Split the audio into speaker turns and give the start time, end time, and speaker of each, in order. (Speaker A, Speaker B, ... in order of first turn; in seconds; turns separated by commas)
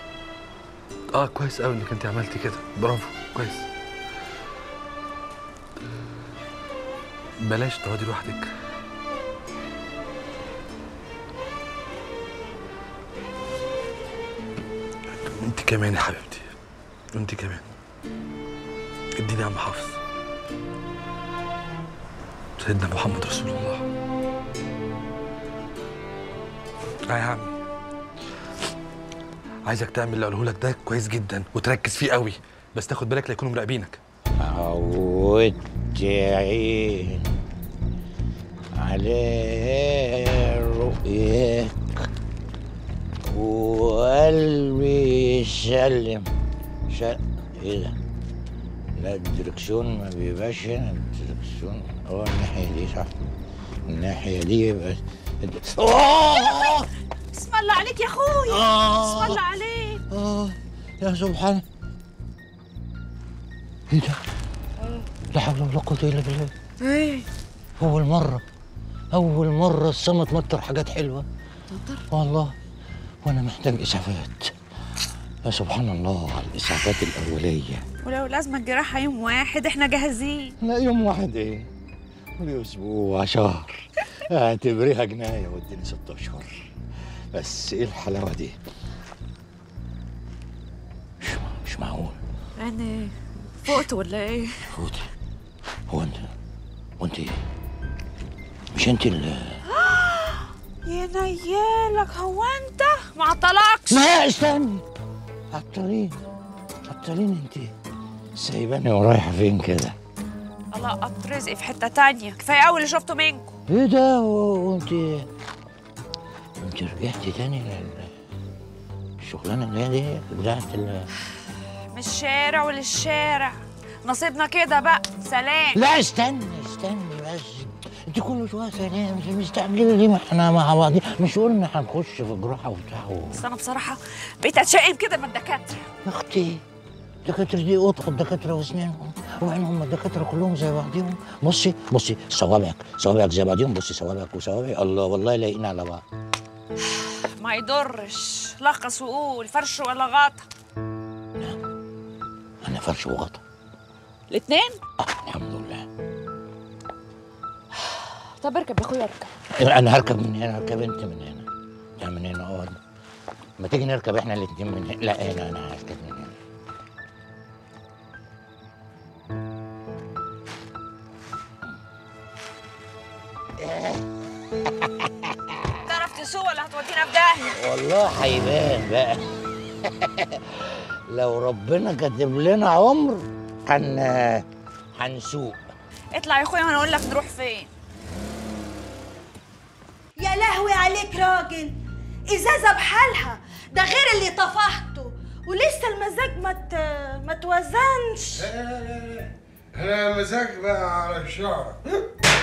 Speaker A: 1.1-3.7, Speaker A: 7.4-8.5, Speaker A: 15.1-16.5, Speaker A: 17.1-17.7, Speaker A: 19.2-20.0, Speaker A: 22.6-23.8, Speaker A: 27.1-27.5, Speaker A: 29.7-34.0, Speaker B: 34.4-37.3, Speaker B: 38.8-42.0, Speaker B: 43.2-46.3, Speaker B: 46.9-48.0, Speaker B: 49.0-53.1, Speaker B: 53.9-56.9, Speaker C: 57.3-60.0, Speaker B: 58.5-59.4, Speaker B: 60.1-61.6, Speaker B: 63.9-64.2, Speaker B: 65.3-66.5, Speaker C: 66.9-67.2, Speaker B: 67.8-68.4, Speaker B: 69.1-71.2, Speaker B: 72.1-72.5, Speaker B: 73.2-74.5, Speaker B: 75.4-77.8, Speaker C: 78.0-80.5, Speaker B: 80.6-81.7, Speaker B: 82.4-86.7, Speaker B: 87.3-88.5, Speaker B: 91.2-92.2, Speaker C: 92.6-93.1, Speaker C: 93.6-94.7, Speaker B: 94.7-95.0, Speaker B: 95.9-96.3, Speaker B: 97.0-97.4, Speaker B: 98.7-99.6, Speaker C: 99.7-104.1, Speaker B: 103.9-104.8, Speaker B: 105.5-106.2, Speaker B: 106.8-107.7, Speaker B: 108.3-109.9, Speaker C: 110.7-113.5, Speaker B: 113.7-115.3, Speaker B: 116.6-118.1, Speaker B: 119.2-121.1, Speaker C: 121.9-125.8, Speaker B: 125.7-133.4, Speaker C: 133.3-135.8, Speaker B: 136.0-136.6, Speaker B: 137.2-146.0, Speaker C: 146.9-150.4, Speaker B: 152.6-153.4, Speaker C: 154.3-154.8, Speaker B: 155.0-155.9, Speaker C: 157.8-159.3, Speaker B: 159.6-161.5, Speaker B: 162.0-162.8, Speaker B: 163.6-166.3, Speaker B: 173.6-174.0, Speaker B: 174.6-175.7, Speaker C: 175.8-177.6, Speaker B: 177.6-179.3, Speaker B: 179.8-184.4, Speaker B: 185.0-185.6, Speaker C: 186.1-187.7, Speaker D: 190.2-191.7, Speaker D: 192.3-198.5, Speaker E: 198.4-201.8